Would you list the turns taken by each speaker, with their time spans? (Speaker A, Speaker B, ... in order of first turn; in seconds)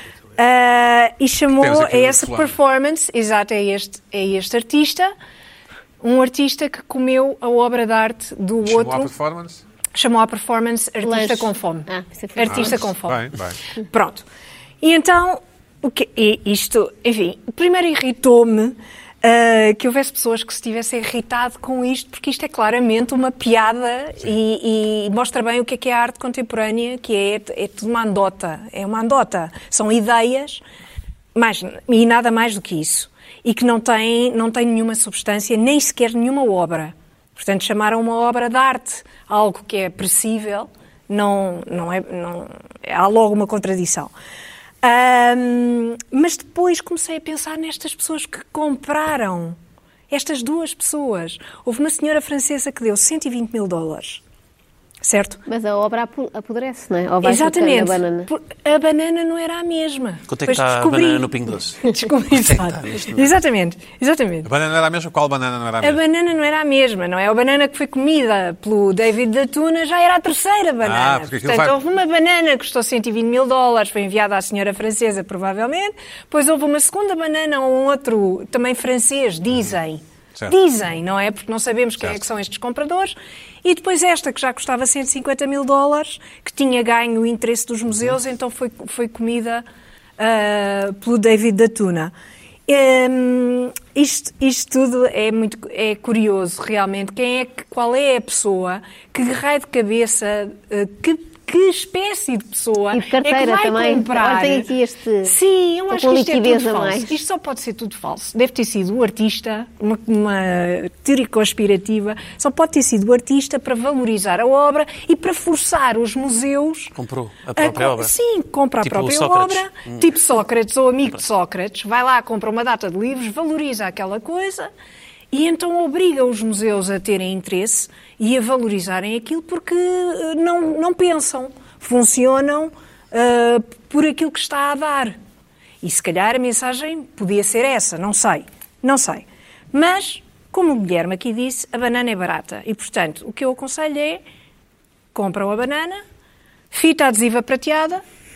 Speaker A: 0.3-5.1, 6.0-9.1, 9.9-14.2, 14.8-30.6, 31.3-44.1, 44.8-49.6, 50.1-54.2, 55.0-55.4, 57.2-64.5, 65.8-89.6, 90.2-92.1, 92.7-104.7, 105.2-116.9, 117.5-124.7, 125.3-135.2, 135.8-144.2, 145.1-146.0, 146.7-148.0
Speaker B: 1.6-2.5, 8.6-9.6, 12.4-13.6, 64.4-66.0, 70.8-71.8
Speaker C: 11.0-12.8, 55.5-58.3, 102.9-105.3, 105.9-107.1
Speaker D: 60.3-61.8, 62.8-63.3, 117.0-118.2, 118.8-120.1